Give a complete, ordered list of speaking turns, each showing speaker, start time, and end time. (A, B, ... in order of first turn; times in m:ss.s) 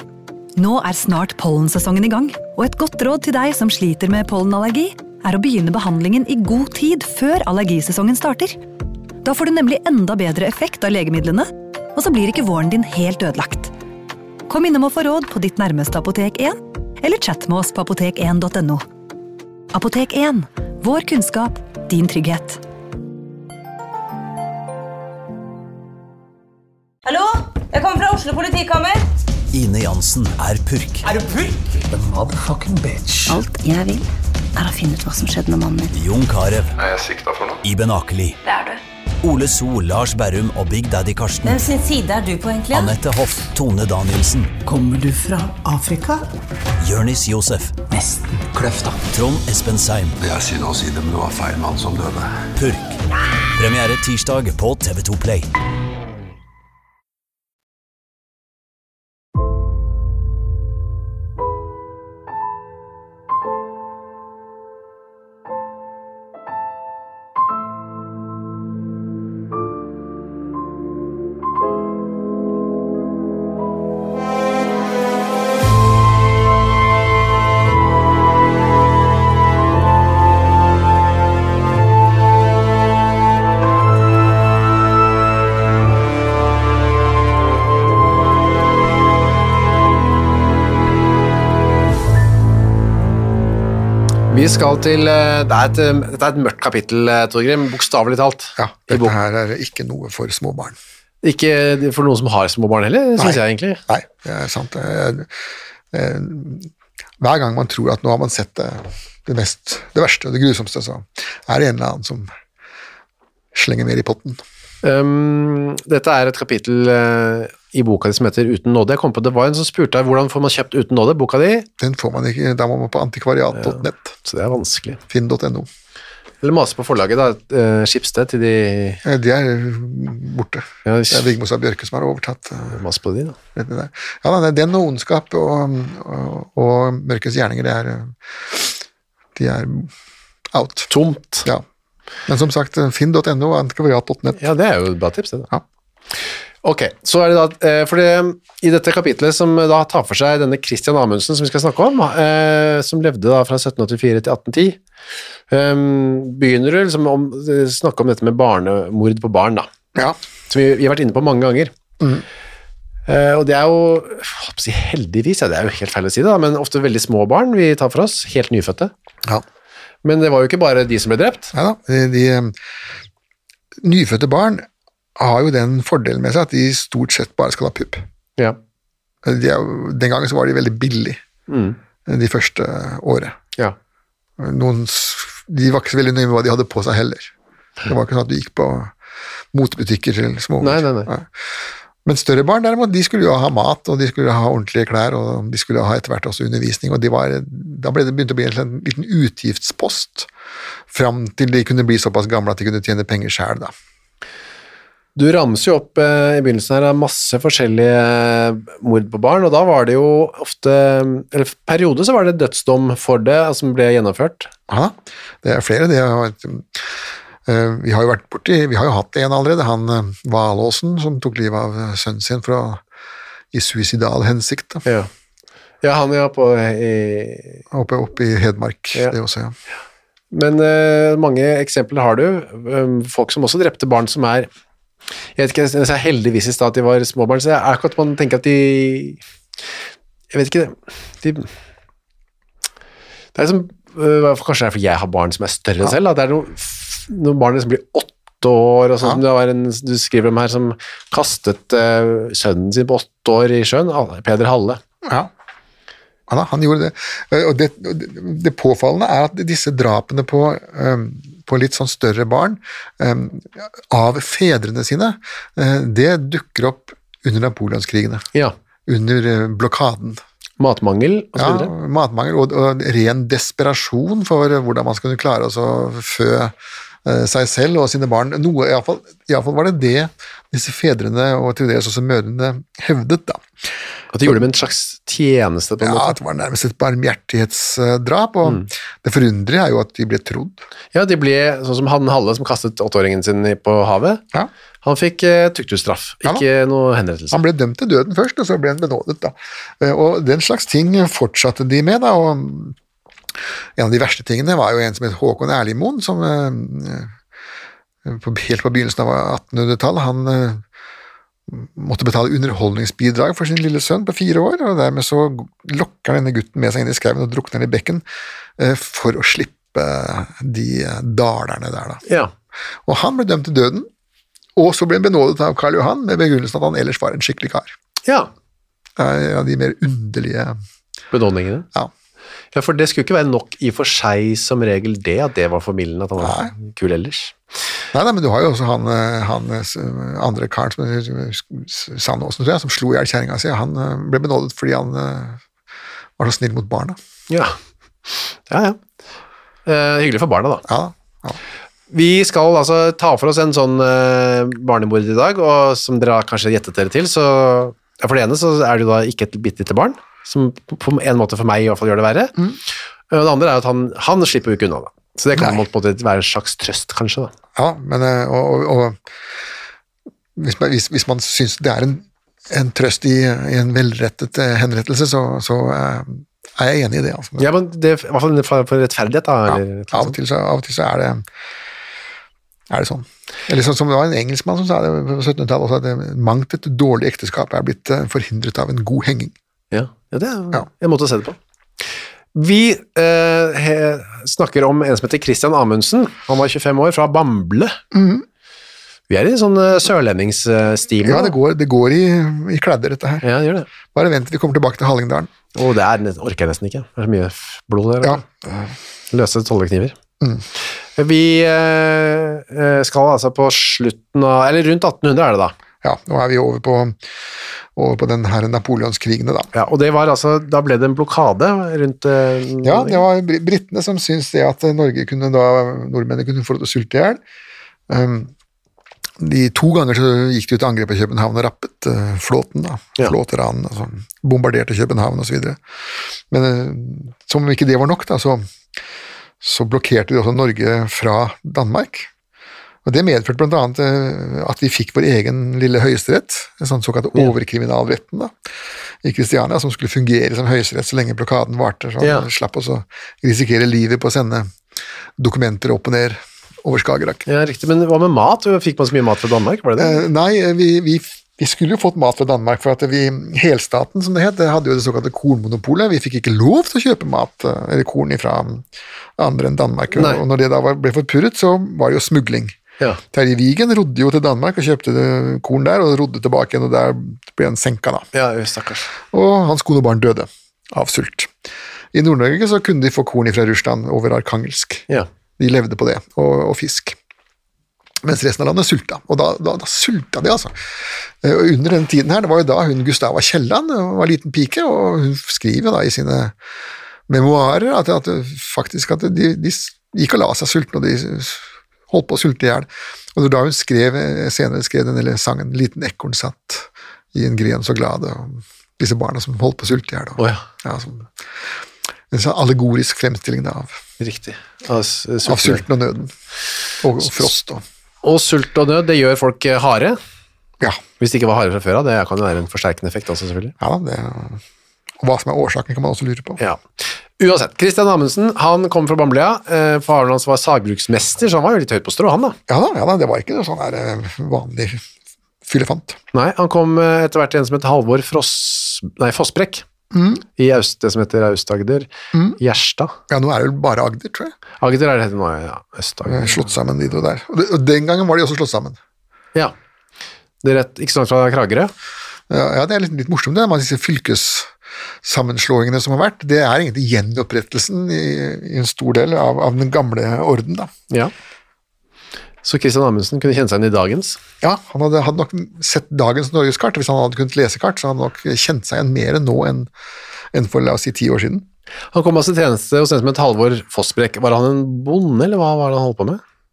0:00.6-0:08.6 A
0:09.2-0:13.7 A
0:14.5-0:18.8 A
0:19.7-0:22.6 A
0:27.0-0:29.0 B
0:29.5-0:31.1 C
0:31.1-0:31.6 B
0:31.9-0:33.4 D
0:33.3-0:36.0 E
0:35.9-0:36.8 C
0:36.8-0:37.6 F
0:37.6-0:38.4 C
0:39.2-0:41.6 C
0:41.4-0:43.0 B
0:42.7-0:44.5 C
0:44.6-0:46.3 D
0:46.8-0:47.8 C
0:47.9-0:49.0 D
0:49.1-0:50.2 C
0:50.2-0:52.3 F
0:52.6-0:53.0 C
0:53.6-0:55.5 C
1:34.3-1:39.1 G
1:38.6-1:40.8 H
1:41.2-1:43.8 G
1:43.2-1:45.3 H
1:45.9-1:52.3 H
1:53.5-1:54.4 H
1:54.8-2:01.7 G
2:01.8-2:04.2 H
2:03.6-2:05.0 G
2:05.1-2:05.7 H
2:06.4-2:09.0 G
2:09.0-2:12.8 H
2:10.8-2:11.3 G
2:12.7-2:13.4 G
2:13.6-2:18.8 H
2:19.4-2:19.9 H
2:20.5-2:20.9 H
2:20.9-2:21.5 G
2:22.3-2:24.4 H
2:24.4-2:25.5 G
2:26.6-2:34.8 G
2:35.5-2:39.7 G
2:40.5-2:41.7 G
2:42.0-2:42.2 H
2:43.1-2:48.9 G
2:50.0-2:51.5 G
2:51.5-2:52.6 H
2:53.8-2:58.0 H
2:59.2-3:01.2 H
3:01.5-3:01.8 G
3:02.1-3:03.4 H
3:04.4-3:07.3 H
3:07.9-3:08.9 H
3:09.5-3:11.3 H
3:10.6-3:11.1 G
3:12.0-3:20.3 H
3:20.9-3:23.7 H
3:25.2-3:34.5 G
3:34.7-3:36.9 H
3:37.5-3:42.8 H
3:43.5-3:44.8 H
3:45.8-3:47.6 G
3:47.7-3:49.6 H
3:50.3-3:54.5 G
3:55.4-3:59.2 G
4:00.3-4:01.5 G
4:03.4-4:14.8 G
4:15.0-4:15.3 H
4:16.3-4:28.3 H
4:28.9-4:30.2 H
4:30.6-4:31.7 G
4:31.4-4:43.5 H
4:44.1-4:46.2 G
4:45.8-4:50.6 H
4:50.9-4:54.2 G
4:54.8-4:57.4 G
4:57.3-5:02.8 H
5:03.8-5:07.1 H
5:08.0-5:10.6 H
5:11.5-5:18.0 H
5:18.6-5:22.0 H
5:22.1-5:22.3 G
5:22.8-5:23.9 H
5:24.6-5:27.7 H
5:28.1-5:28.3 G
5:29.0-5:30.6 H
5:31.1-5:31.7 G
5:32.5-5:37.4 G
5:36.2-5:36.5 H
5:37.9-5:45.4 H
5:46.2-5:47.0 H
5:47.3-5:48.8 G
5:49.6-5:50.6 G
5:50.7-5:51.4 H
5:51.9-6:02.4 G
6:03.1-6:07.3 G
6:07.6-6:09.0 H
6:10.4-6:17.5 H
6:17.4-6:20.2 G
6:19.5-6:21.2 H
6:22.7-6:29.3 H
6:29.7-6:31.4 G
6:32.3-6:37.8 G
6:37.9-6:38.3 H
6:39.1-6:41.3 G
6:41.0-6:43.3 H
6:43.2-6:43.7 G
6:43.9-6:45.3 H
6:45.6-6:48.2 G
6:48.0-6:48.7 H
6:49.1-6:50.0 G
6:51.0-6:55.6 G
6:55.8-6:57.0 H
6:57.8-6:59.5 H
6:59.5-7:03.0 G
7:02.6-7:07.2 H
7:07.9-7:08.3 H
7:09.2-7:15.6 H
7:16.3-7:18.4 H
7:19.4-7:22.1 H
7:22.8-7:28.3 H
7:29.0-7:34.5 H
7:32.0-7:32.3 G
7:35.2-7:37.2 H
7:37.3-7:40.0 G
7:39.8-7:52.6 H
7:49.9-7:50.2 G
7:53.1-7:58.1 H
7:58.1-7:58.9 G
7:59.1-8:01.3 H
8:01.9-8:04.9 H
8:05.4-8:07.0 H
8:08.0-8:10.6 H
8:11.2-8:16.4 H
8:17.1-8:31.1 H
8:30.2-8:30.4 G
8:32.1-8:33.8 H
8:34.0-8:35.6 G
8:35.2-8:36.1 H
8:36.8-8:37.6 H
8:38.0-8:40.0 G
8:41.0-8:43.6 G
8:43.6-8:44.4 H
8:45.0-8:46.4 H
8:46.4-8:52.4 G
8:52.5-8:54.8 H
8:55.5-8:56.0 H
8:56.1-8:59.6 G
8:59.9-9:00.2 H
9:00.4-9:03.0 G
9:02.1-9:02.4 H
9:03.1-9:04.4 H
9:04.6-9:06.5 G
9:06.1-9:08.8 H
9:10.4-9:11.7 G
9:12.3-9:14.5 H
9:15.0-9:20.7 H
9:22.4-9:24.2 G
9:24.4-9:29.7 H
9:30.3-9:31.5 H
9:31.9-9:36.2 G